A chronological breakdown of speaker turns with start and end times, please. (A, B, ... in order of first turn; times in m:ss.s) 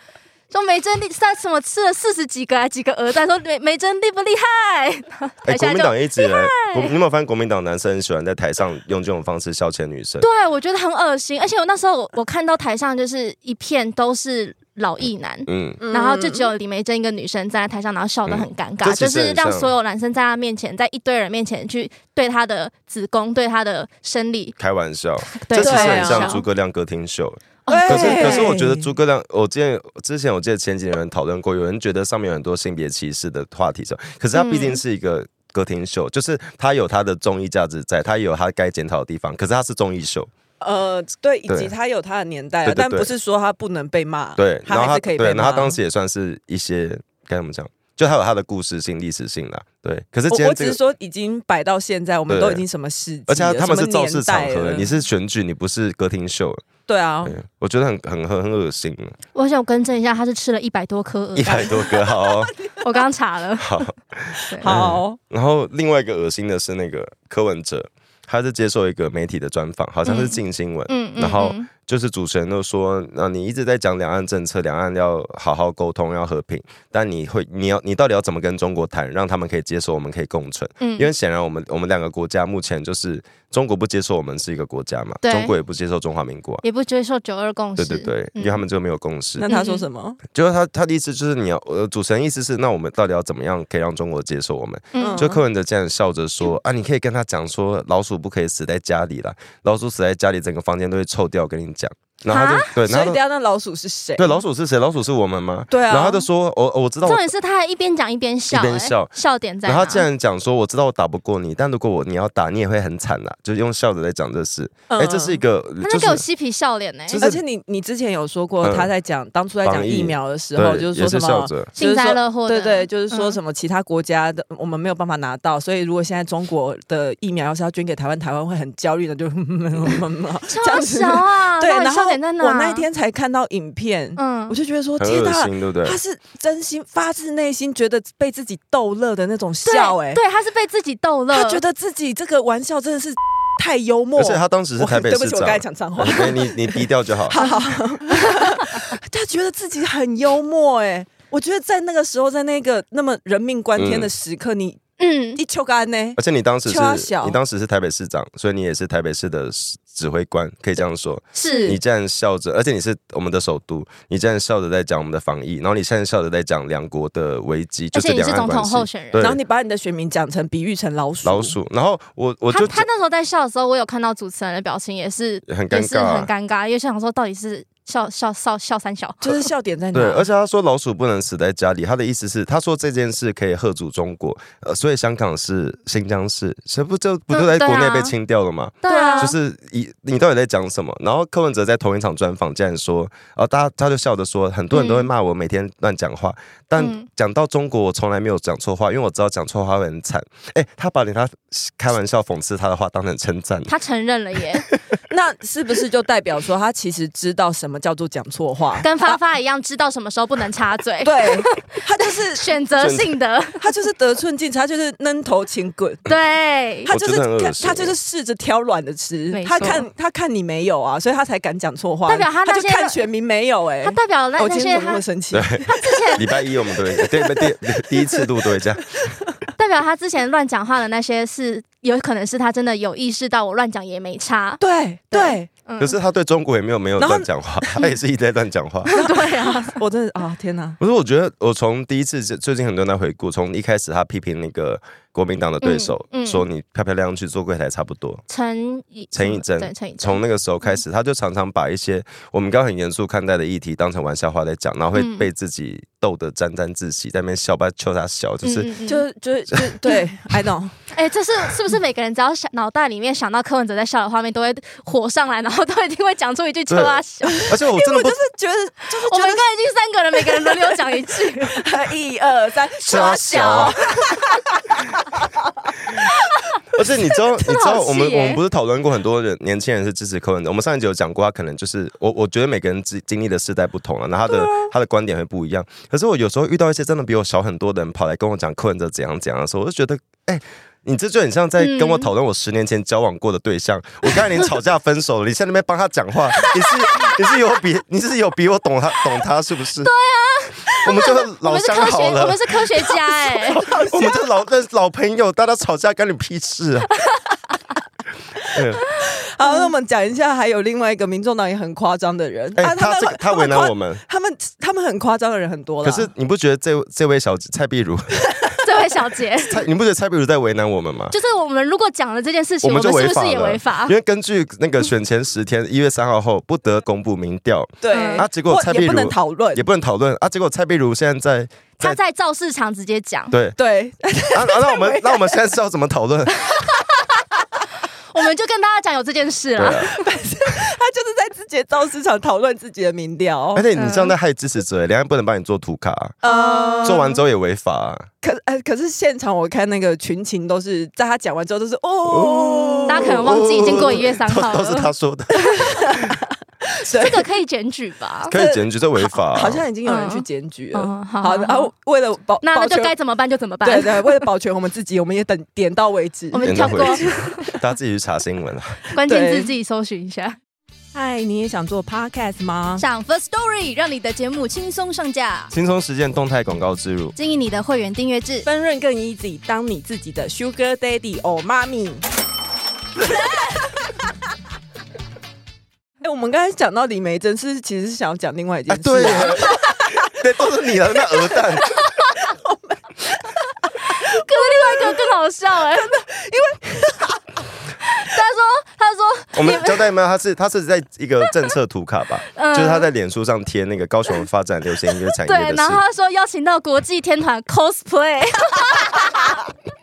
0:00.5-0:06.9 A
0:05.4-0:10.3 B
0:10.2-0:24.6 A
0:15.5-0:15.8 B
0:15.8-0:16.5 C
0:18.3-0:19.7 B
0:24.6-0:40.3 B
0:25.2-0:26.4 A
0:25.6-0:26.4 C
0:27.7-0:28.5 A
0:27.7-0:28.9 C
0:34.3-0:34.8 A
0:40.6-0:45.8 C
0:41.5-0:41.7 B
0:42.6-0:43.1 B
0:44.4-0:50.8 B
0:50.3-0:54.9 C
0:52.3-0:52.6 B
0:53.3-0:56.6 B
0:56.9-0:57.4 C
0:57.2-0:59.1 B
0:59.3-1:02.1 A
1:01.4-1:02.5 B
1:02.8-1:04.8 A
1:03.6-1:26.6 B
1:04.4-1:05.2 C
1:10.0-1:11.7 A
1:20.8-1:21.1 A
1:25.2-1:25.5 A
1:26.6-1:28.6 A
1:27.8-1:29.5 B
1:29.4-1:30.2 C
1:29.4-1:29.8 A
1:30.3-1:43.2 B
1:34.9-1:35.4 A
1:35.0-1:35.4 C
1:42.3-1:42.8 A
1:42.8-1:44.4 C
1:44.2-1:47.2 B
1:45.7-1:46.2 C
1:47.0-1:50.1 A
1:48.5-1:49.1 B
1:49.6-1:56.2 B
1:54.9-1:55.4 C
1:55.8-1:57.2 A
1:57.1-1:57.4 B
1:57.1-2:20.2 C
1:58.6-1:58.9 B
1:59.6-2:01.7 B
2:01.8-2:03.4 A
2:10.5-2:12.9 A
2:14.2-2:14.6 A
2:15.0-2:16.0 B
2:19.6-2:21.6 A
2:21.3-2:34.8 C
2:24.2-2:27.4 B
2:33.8-2:34.1 B
2:35.0-2:35.4 A
2:35.4-2:37.4 C
2:36.2-2:49.4 B
2:41.3-2:41.8 A
2:41.4-2:41.8 C
2:47.9-2:49.3 A
2:49.2-2:51.6 C
2:51.2-2:52.9 B
2:52.5-2:59.5 A
2:55.5-2:56.3 B
2:59.2-3:00.3 C
2:59.9-3:23.7 B
3:07.3-3:08.1 A
3:08.8-3:09.3 A
3:08.8-3:09.3 C
3:14.7-3:15.1 A
3:16.8-3:17.0 A
3:23.7-3:24.7 A
3:25.1-3:29.2 C
3:28.8-3:33.7 A
3:31.0-3:32.5 C
3:32.8-3:33.1 B
3:33.6-3:36.1 C
3:36.0-3:36.9 A
3:36.8-3:46.2 C
3:36.9-3:37.9 B
3:39.3-3:39.8 A
3:42.1-3:43.1 A
3:43.8-3:45.0 A
3:45.3-3:49.0 B
3:45.7-3:46.3 A
3:46.9-3:48.3 C
3:49.0-3:49.4 C
3:49.6-3:56.0 A
3:54.6-3:55.5 C
3:55.8-3:58.9 B
3:57.0-3:57.8 C
3:58.9-3:59.8 A
3:58.9-4:00.8 C
4:00.8-4:08.2 B
4:05.6-4:06.4 A
4:08.3-4:10.2 A
4:09.1-4:18.7 B
4:14.9-4:15.3 A
4:18.4-4:19.0 A
4:18.8-4:20.8 C
4:20.9-4:27.5 A
4:26.7-4:28.2 B
4:27.2-4:29.4 C
4:29.0-4:31.6 A
4:30.2-4:35.7 C
4:32.8-4:34.2 A
4:32.9-4:33.8 B
4:36.7-4:59.9 B
4:37.3-4:38.4 A
4:51.6-4:52.1 A
4:56.4-4:57.2 A
4:59.8-5:03.6 A
5:00.8-5:06.9 B
5:03.4-5:04.3 C
5:08.5-5:08.8 B
5:08.5-5:16.1 C
5:12.6-5:14.0 B
5:15.8-5:18.4 B
5:18.6-5:19.6 A
5:19.4-5:21.1 B
5:21.1-5:23.9 A
5:22.6-5:32.0 B
5:27.8-5:29.6 C
5:27.9-5:28.2 A
5:31.8-5:33.4 A
5:33.3-5:33.6 B
5:33.6-5:35.4 C
5:34.3-5:36.6 B
5:38.1-5:40.0 A
5:39.6-5:39.9 B
5:39.8-5:43.6 C
5:43.5-5:46.2 B
5:43.7-5:44.1 A
5:46.2-5:47.1 C
5:46.2-5:47.2 A
5:46.8-5:48.1 B
5:48.2-5:54.0 C
5:52.0-5:56.1 B
5:52.9-5:55.6 A
5:55.4-5:57.2 C
5:56.9-5:58.3 A
5:58.3-5:59.6 B
5:58.3-6:02.9 C
5:59.8-6:01.7 A
6:02.4-6:04.3 A
6:03.6-6:07.5 C
6:06.3-6:07.5 A
6:06.4-6:08.8 B
6:08.9-6:10.4 A
6:09.0-6:09.5 C
6:10.9-6:12.8 C
6:12.8-6:15.5 A
6:15.5-6:17.1 B
6:17.2-6:18.5 A
6:18.4-6:22.0 C
6:26.0-6:30.0 C
6:28.7-6:31.8 B
6:31.8-6:32.1 A
6:32.2-6:35.0 C
6:33.8-6:36.0 A
6:35.7-6:37.4 C
6:37.8-6:39.9 A
6:39.3-6:45.8 B
6:42.3-6:42.9 A
6:45.2-6:49.4 A